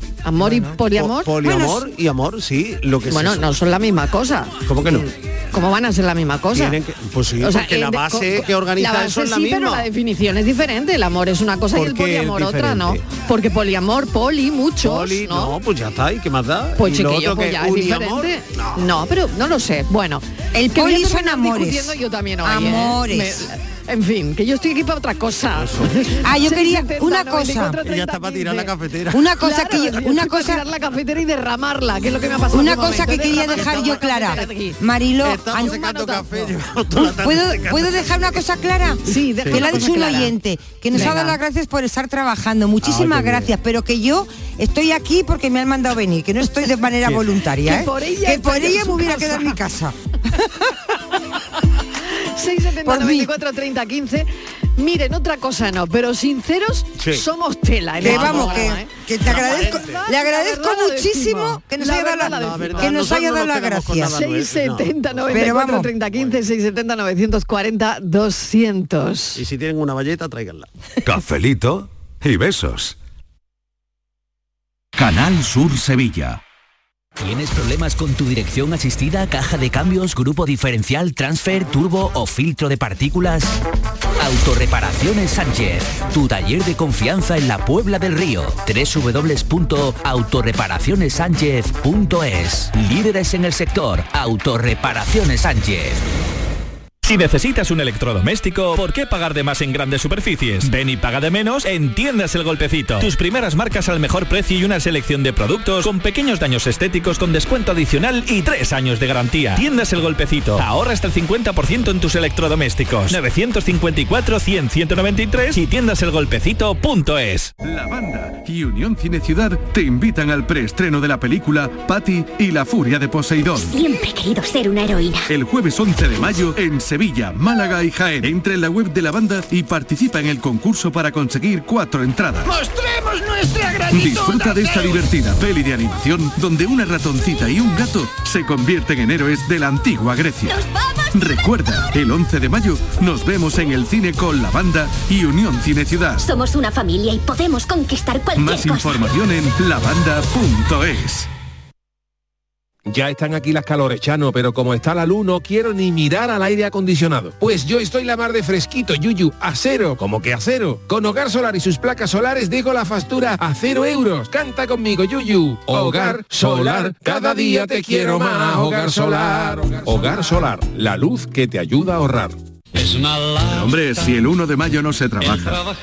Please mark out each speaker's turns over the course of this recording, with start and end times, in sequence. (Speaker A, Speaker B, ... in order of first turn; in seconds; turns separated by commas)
Speaker A: 0.2-1.3, Speaker B: 0.4-0.8, Speaker C: 0.9-3.5, Speaker B: 1.4-1.9, Speaker A: 3.1-6.8, Speaker C: 4.7-5.1, Speaker C: 6.5-9.9, Speaker A: 7.4-15.6, Speaker C: 11.7-13.0, Speaker C: 14.8-18.9, Speaker A: 16.8-28.7, Speaker B: 20.5-23.5, Speaker C: 25.6-26.1, Speaker B: 26.2-27.8, Speaker C: 27.8-29.3, Speaker B: 29.1-30.6, Speaker A: 29.4-34.8, Speaker B: 32.5-36.0, Speaker C: 33.1-34.4, Speaker C: 35.2-38.4, Speaker A: 35.5-36.5, Speaker B: 36.9-50.7, Speaker A: 39.1-40.4, Speaker C: 39.4-39.9, Speaker A: 40.9-41.4, Speaker C: 42.8-43.5, Speaker C: 47.0-47.4, Speaker A: 47.6-49.6, Speaker A: 52.1-63.2, Speaker B: 52.8-53.3, Speaker C: 57.0-57.2, Speaker C: 58.0-60.0, Speaker B: 58.0-64.2, Speaker C: 62.1-66.5, Speaker A: 64.1-69.4, Speaker B: 65.3-65.9, Speaker C: 69.4-70.7, Speaker D: 71.1-72.9, Speaker D: 75.0-76.4, Speaker E: 77.2-83.6, Speaker E: 84.2-96.0, Speaker F: 97.0-117.5, Speaker D: 117.6-123.9, Speaker G: 123.6-125.3, Speaker D: 125.3-132.6, Speaker H: 132.5-134.8, Speaker D: 133.9-146.3, Speaker G: 146.2-149.1, Speaker D: 148.3-151.3, Speaker I: 152.9-172.4, Speaker D: 173.4-175.6